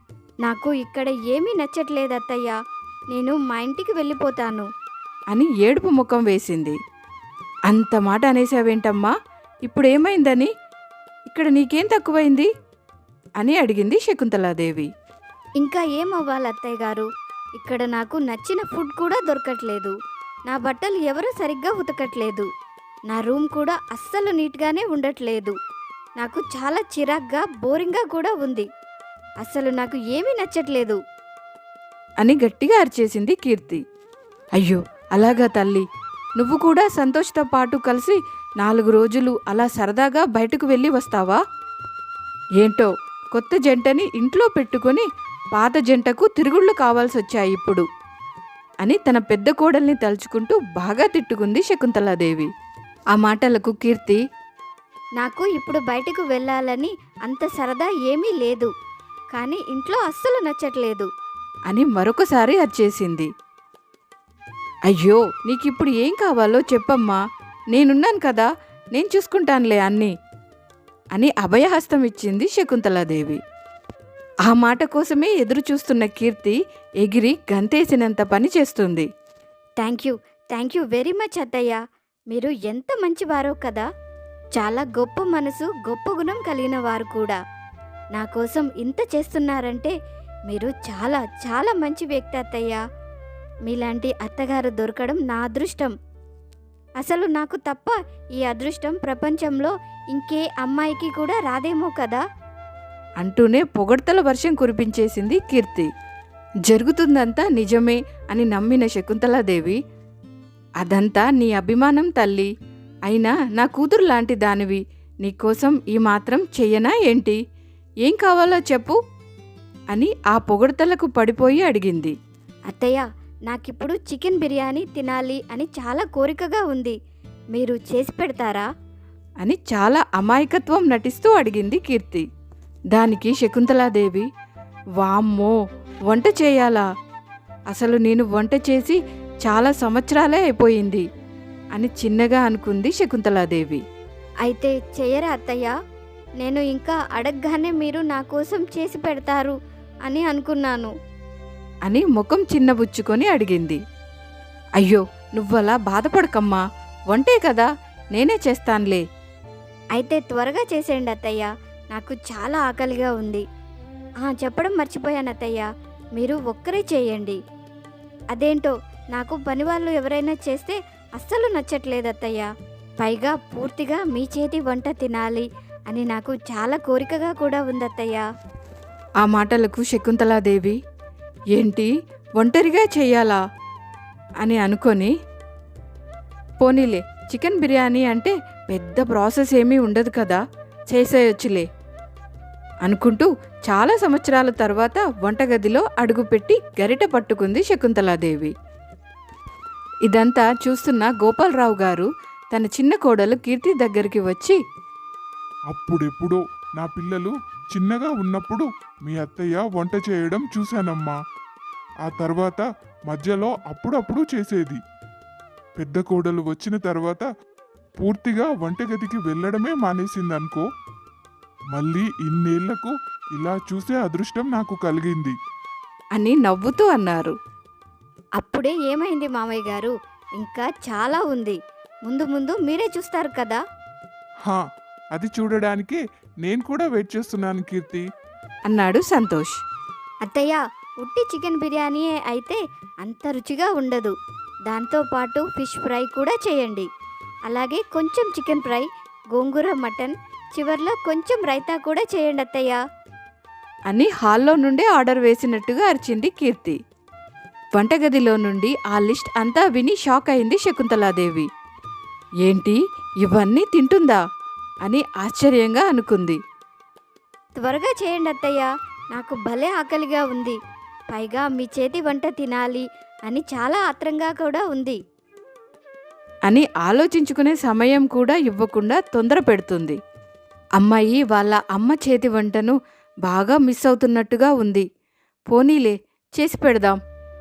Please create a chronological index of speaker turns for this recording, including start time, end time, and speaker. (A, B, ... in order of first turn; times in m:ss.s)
0:00.4-0:02.6 A
0:03.1-0:04.6 A
0:05.3-0:06.8 B
0:07.7-0:10.5 B
0:11.3-0:12.5 B
0:13.4-0:14.9 B
0:15.6-0:17.0 A
0:17.6-0:19.9 A
0:20.5-0:22.5 A
0:23.1-0:25.5 A
0:26.2-0:28.6 A
0:29.4-0:31.0 A
0:32.2-0:33.8 B
0:34.6-0:35.8 B
0:36.4-0:41.4 B
0:42.6-0:47.8 B
0:48.8-0:52.5 B
0:53.1-0:54.2 B
0:55.2-0:58.7 A
0:59.3-1:01.1 A
1:01.7-1:03.3 B
1:04.9-1:07.2 B
1:07.7-1:10.1 B
1:11.1-1:13.4 B
1:14.5-1:19.1 B
1:19.8-1:21.8 A
1:22.3-1:23.8 A
1:24.6-1:27.4 A
1:28.1-1:29.9 A
1:30.5-1:32.8 A
1:33.7-1:35.9 A
1:37.0-1:42.2 A
1:43.2-1:45.9 B
1:46.6-1:49.8 B
1:50.8-1:52.5 B
1:53.0-1:57.4 B
1:58.0-1:59.0 B
1:59.9-2:02.2 B
2:02.7-2:07.0 A
2:07.5-2:08.6 A
2:09.4-2:12.2 B
2:12.9-2:14.2 B
2:15.0-2:15.6 B
2:16.1-2:16.9 B
2:17.7-2:21.0 B
2:21.7-2:23.8 B
2:24.4-2:25.7 A
2:26.4-2:29.5 A
2:30.0-2:30.9 A
2:31.8-2:33.8 B
2:34.8-2:39.0 B
2:40.0-2:43.4 A
2:44.2-2:45.6 A
2:46.2-2:47.4 A
2:48.3-2:52.5 A
2:53.0-2:58.2 A
2:59.2-3:00.8 B
3:01.5-3:03.4 B
3:04.4-3:05.1 B
3:06.6-3:11.7 B
3:12.8-3:18.5 B
3:20.0-3:24.6 B
3:25.7-3:31.2 C
3:32.0-3:34.8 C
3:35.8-3:37.2 C
3:38.0-3:40.6 C
3:41.7-3:45.3 C
3:46.1-3:47.3 B
3:48.4-3:53.6 A
3:55.1-3:58.0 C
3:58.7-3:59.5 B
4:00.2-4:04.1 A
4:04.7-4:06.9 A
4:07.5-4:12.8 A
4:13.9-4:16.8 B
4:17.7-4:21.4 B
4:22.4-4:24.2 B
4:24.8-4:26.4 B
4:27.6-4:30.6 A
4:31.1-4:35.0 A
4:36.5-4:40.0 B
4:40.8-4:44.8 B
4:45.5-4:47.0 B